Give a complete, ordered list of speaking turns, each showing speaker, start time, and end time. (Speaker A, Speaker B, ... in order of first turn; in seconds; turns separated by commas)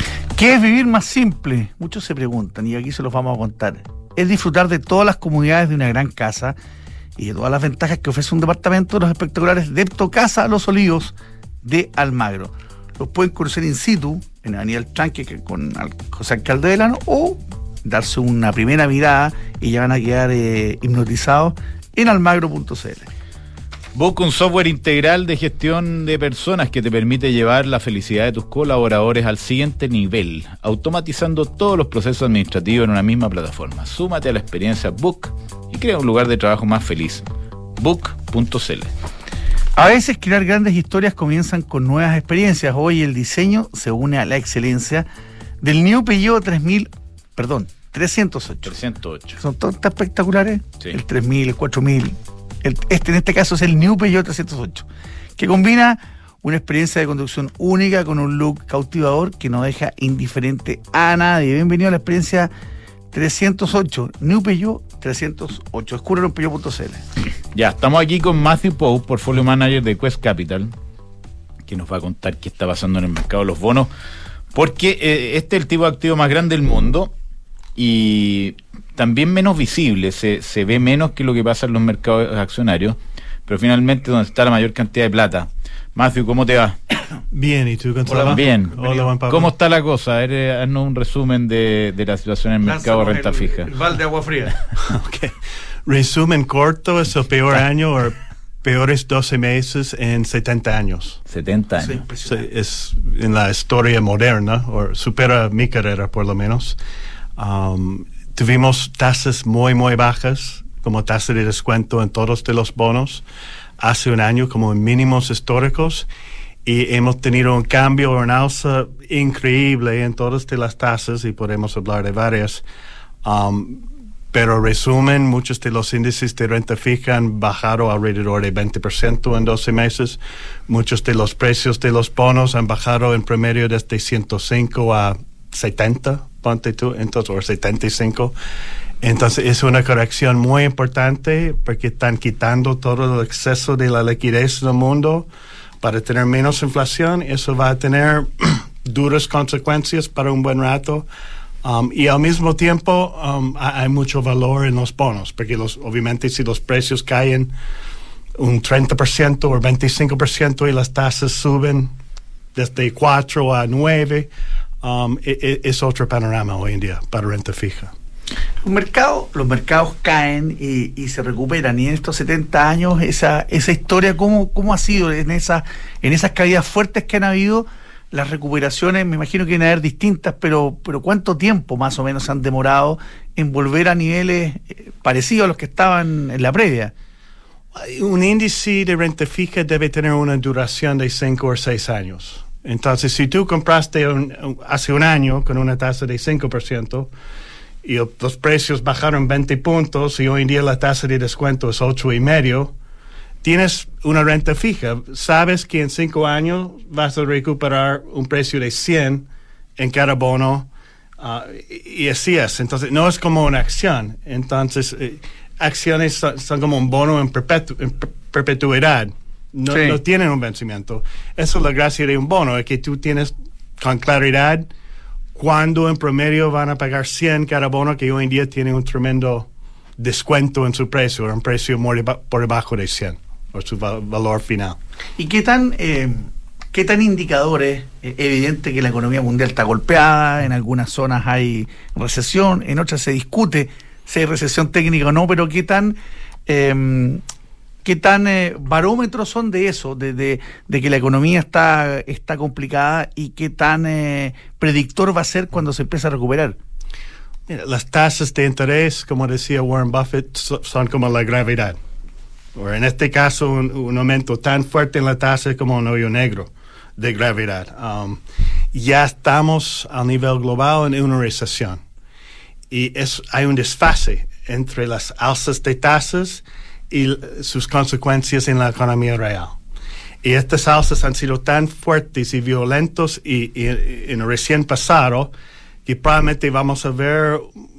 Speaker A: 0.3-6.6, Speaker A: 7.2-23.1, Speaker B: 23.9-37.2, Speaker B: 37.8-38.9, Speaker A: 39.8-45.1, Speaker A: 45.6-48.7, Speaker B: 48.6-49.4, Speaker A: 49.4-62.5, Speaker A: 63.1-67.0, Speaker B: 67.5-70.7, Speaker B: 71.7-73.9, Speaker B: 74.5-77.1, Speaker B: 77.8-86.8, Speaker C: 87.3-89.5, Speaker A: 88.0-88.9, Speaker B: 88.3-93.7, Speaker A: 92.6-94.6, Speaker C: 94.9-95.3, Speaker C: 95.9-101.2, Speaker B: 101.3-102.0, Speaker A: 101.8-102.4, Speaker C: 102.3-106.8, Speaker C: 107.4-113.2, Speaker C: 113.8-116.1, Speaker C: 116.6-122.6, Speaker C: 123.2-138.3, Speaker C: 139.0-145.3, Speaker C: 145.8-151.1, Speaker C: 151.6-157.5, Speaker C: 158.4-161.9, Speaker C: 162.6-164.3, Speaker C: 164.8-167.9, Speaker A: 168.6-186.9, Speaker C: 187.7-197.1, Speaker C: 197.8-202.7, Speaker C: 203.4-210.7, Speaker C: 211.2-224.7, Speaker A: 219.7-220.0, Speaker C: 225.3-234.8, Speaker A: 235.2-247.2, Speaker A: 247.8-256.6, Speaker C: 257.5-261.8, Speaker C: 262.6-268.2, Speaker C: 268.7-271.8, Speaker C: 272.7-279.5, Speaker C: 280.2-285.3, Speaker C: 285.9-287.5